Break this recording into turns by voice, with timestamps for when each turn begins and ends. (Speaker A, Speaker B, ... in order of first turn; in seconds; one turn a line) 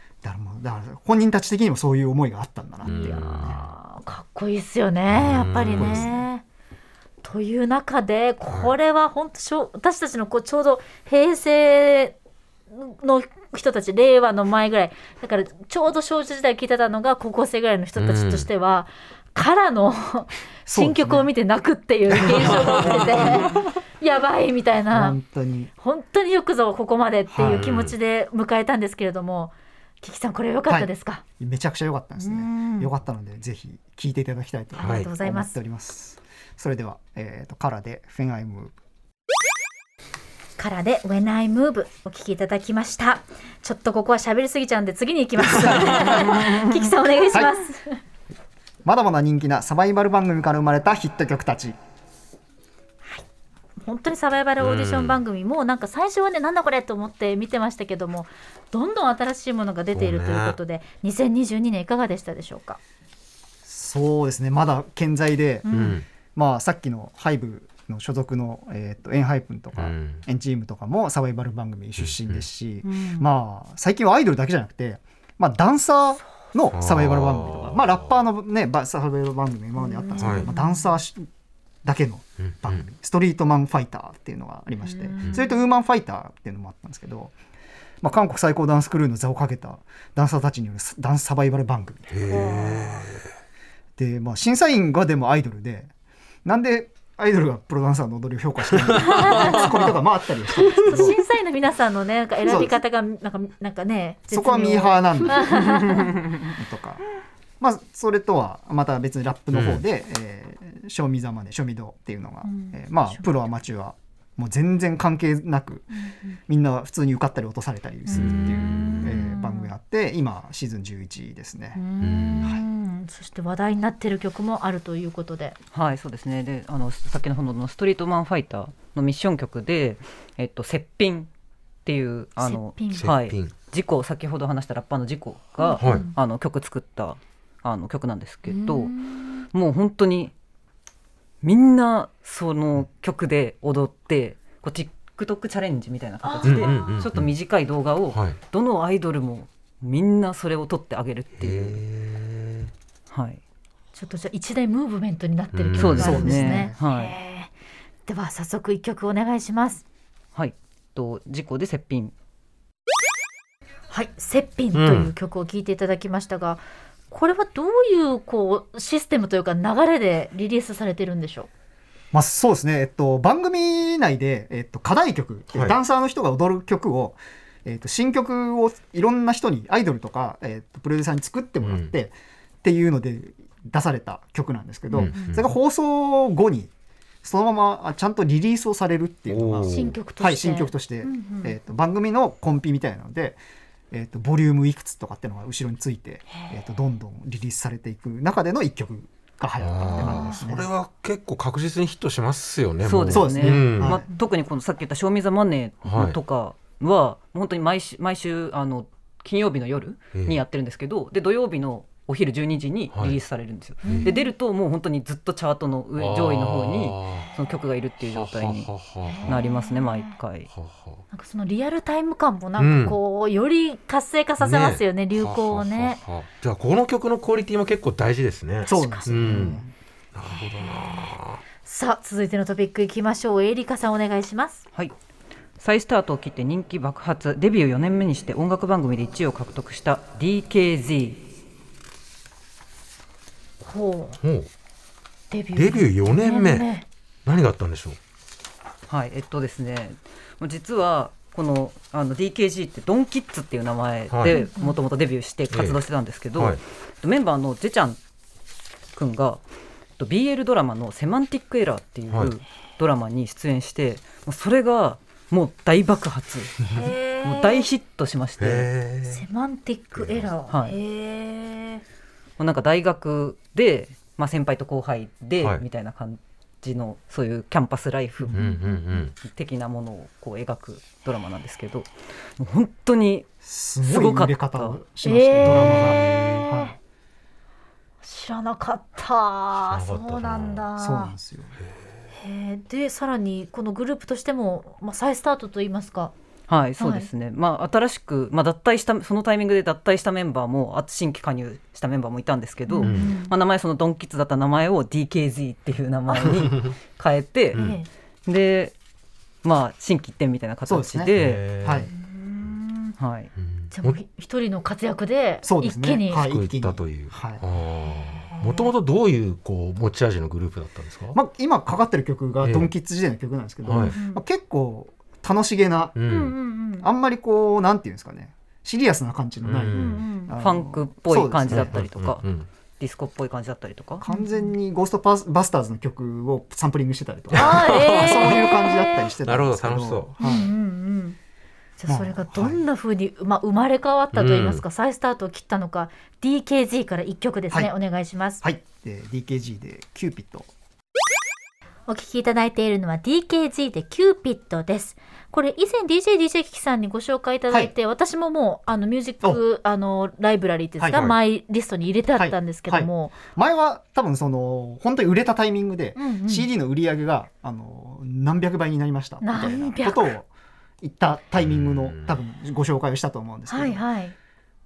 Speaker A: 0.2-3.6
Speaker B: 2.8-6.4
Speaker C: 2.8-3.7
Speaker C: 5.1-6.1
Speaker A: 5.7-6.2
Speaker B: 7.2-12.2
Speaker C: 8.5-8.7
Speaker B: 12.7-25.2
Speaker C: 17.9-18.5
Speaker A: 20.7-21.3
Speaker C: 22.1-23.5
Speaker A: 24.9-25.7
Speaker B: 25.8-31.2
Speaker A: 27.3-27.7
Speaker C: 27.4-27.9
Speaker A: 30.7-38.7
Speaker B: 32.2-32.9
Speaker B: 34.8-35.5
Speaker C: 34.8-35.1
Speaker B: 40.6-48.0
Speaker A: 45.6-46.4
Speaker C: 45.7-46.3
Speaker A: 48.8-51.8
Speaker B: 53.8-62.8
Speaker C: 54.6-55.2
Speaker C: 59.9-60.6
Speaker A: 63.6-81.3
Speaker B: 65.6-66.0
Speaker C: 65.7-66.0
Speaker C: 69.8-70.2
Speaker C: 72.0-72.4
Speaker B: 72.8-73.3
Speaker C: 76.7-77.9
Speaker B: 79.8-80.9
Speaker C: 80.2-80.5
Speaker A: 81.8-87.3
Speaker C: 82.4-82.8
Speaker B: 84.8-85.6
Speaker A: 88.0-92.7
Speaker C: 92.1-93.2
Speaker B: 92.3-93.0
Speaker A: 94.0-95.9
Speaker A: 96.4-101.2
Speaker C: 98.8-99.8
Speaker B: 99.0-100.0
Speaker B: 100.5-106.3
Speaker A: 102.4-102.8
Speaker A: 104.3-107.0
Speaker A: 107.6-115.9
Speaker C: 109.5-109.8
Speaker B: 112.4-113.3
Speaker A: 116.5-121.8
Speaker B: 118.1-119.7
Speaker C: 118.1-119.3
Speaker B: 121.8-125.6
Speaker C: 122.0-122.5
Speaker D: 125.7-131.3
Speaker D: 131.8-138.9
Speaker B: 132.4-133.1
Speaker C: 132.9-133.5
Speaker B: 135.6-136.2
Speaker C: 135.8-136.1
Speaker B: 138.5-139.4
Speaker D: 139.5-140.3
Speaker D: 141.4-151.8
Speaker B: 146.2-147.1
Speaker C: 146.4-147.3
Speaker C: 148.1-148.4
Speaker C: 151.4-152.7
Speaker D: 153.1-153.4
Speaker B: 153.9-157.5
Speaker C: 155.5-156.3
Speaker D: 155.8-157.2
Speaker A: 156.0-156.8
Speaker B: 158.1-159.8
Speaker D: 160.3-162.1
Speaker B: 163.9-171.5
Speaker C: 164.7-165.1
Speaker A: 172.1-186.7
Speaker C: 175.5-175.8
Speaker C: 181.6-181.9
Speaker B: 184.9-185.4
Speaker C: 184.9-185.5
Speaker A: 187.2-193.4
Speaker C: 189.3-190.0
Speaker B: 189.7-191.5
Speaker A: 193.9-200.7
Speaker C: 199.6-204.0
Speaker B: 199.8-200.4
Speaker D: 202.8-218.7
Speaker A: 203.1-204.1
Speaker C: 205.8-206.2
Speaker C: 210.1-210.4
Speaker C: 213.8-214.1
Speaker B: 213.8-214.3
Speaker C: 216.0-217.3
Speaker C: 218.1-219.4
Speaker B: 219.0-220.2
Speaker D: 219.2-220.5
Speaker C: 220.5-221.0
Speaker B: 221.1-226.0
Speaker C: 222.6-223.0
Speaker C: 224.4-229.6
Speaker B: 228.6-229.6
Speaker A: 228.7-229.7
Speaker C: 230.1-231.4
Speaker B: 230.3-231.1
Speaker B: 231.6-234.6
Speaker D: 235.6-241.2
Speaker B: 243.6-244.2
Speaker C: 244.2-244.5
Speaker B: 245.3-246.8
Speaker C: 245.5-246.7
Speaker C: 247.2-248.0
Speaker D: 248.9-258.0
Speaker C: 254.1-254.4
Speaker B: 254.3-254.8
Speaker C: 255.5-255.8
Speaker C: 256.3-256.6
Speaker D: 258.9-259.4
Speaker D: 260.0-266.6
Speaker B: 266.7-267.7
Speaker D: 267.2-268.7
Speaker C: 268.4-269.2
Speaker B: 269.1-271.8
Speaker C: 269.9-270.3
Speaker D: 270.5-270.8
Speaker D: 272.4-278.4
Speaker C: 278.3-279.1
Speaker B: 278.4-279.0
Speaker D: 279.2-283.3
Speaker A: 283.4-286.7
Speaker D: 283.8-284.8
Speaker B: 285.0-286.7
Speaker C: 285.4-286.5
Speaker B: 288.0-291.1
Speaker C: 289.7-290.7
Speaker A: 290.8-291.5
Speaker B: 292.1-296.1
Speaker D: 296.5-307.6
Speaker B: 296.8-297.1
Speaker B: 302.7-303.3
Speaker C: 302.8-303.1
Speaker B: 306.1-306.5
Speaker B: 307.5-307.9
Speaker D: 308.2-308.7
Speaker D: 309.4-311.4
Speaker A: 310.6-311.9
Speaker C: 311.2-311.9
Speaker B: 311.9-312.9
Speaker D: 313.0-313.3
Speaker C: 313.4-314.0
Speaker B: 313.7-316.2
Speaker A: 315.4-317.4
Speaker C: 316.1-321.1
Speaker B: 318.3-318.7
Speaker A: 321.1-331.8
Speaker C: 322.4-322.7
Speaker C: 323.6-323.9
Speaker B: 323.9-324.2
Speaker C: 325.9-326.3
Speaker B: 326.1-326.9
Speaker C: 329.4-330.1
Speaker B: 329.7-330.3
Speaker D: 330.4-332.2
Speaker C: 331.5-332.5
Speaker D: 332.8-334.0
Speaker A: 334.0-340.5
Speaker B: 334.0-334.5
Speaker C: 337.3-338.5
Speaker B: 337.4-339.1
Speaker C: 339.2-340.1
Speaker B: 340.2-341.2
Speaker B: 341.8-348.4
Speaker A: 341.9-342.6
Speaker C: 344.1-344.6
Speaker A: 348.4-350.5
Speaker B: 351.9-363.2
Speaker A: 362.1-370.3
Speaker B: 365.9-366.4
Speaker B: 369.2-370.1
Speaker A: 370.8-373.8
Speaker C: 371.4-372.1
Speaker B: 373.5-374.1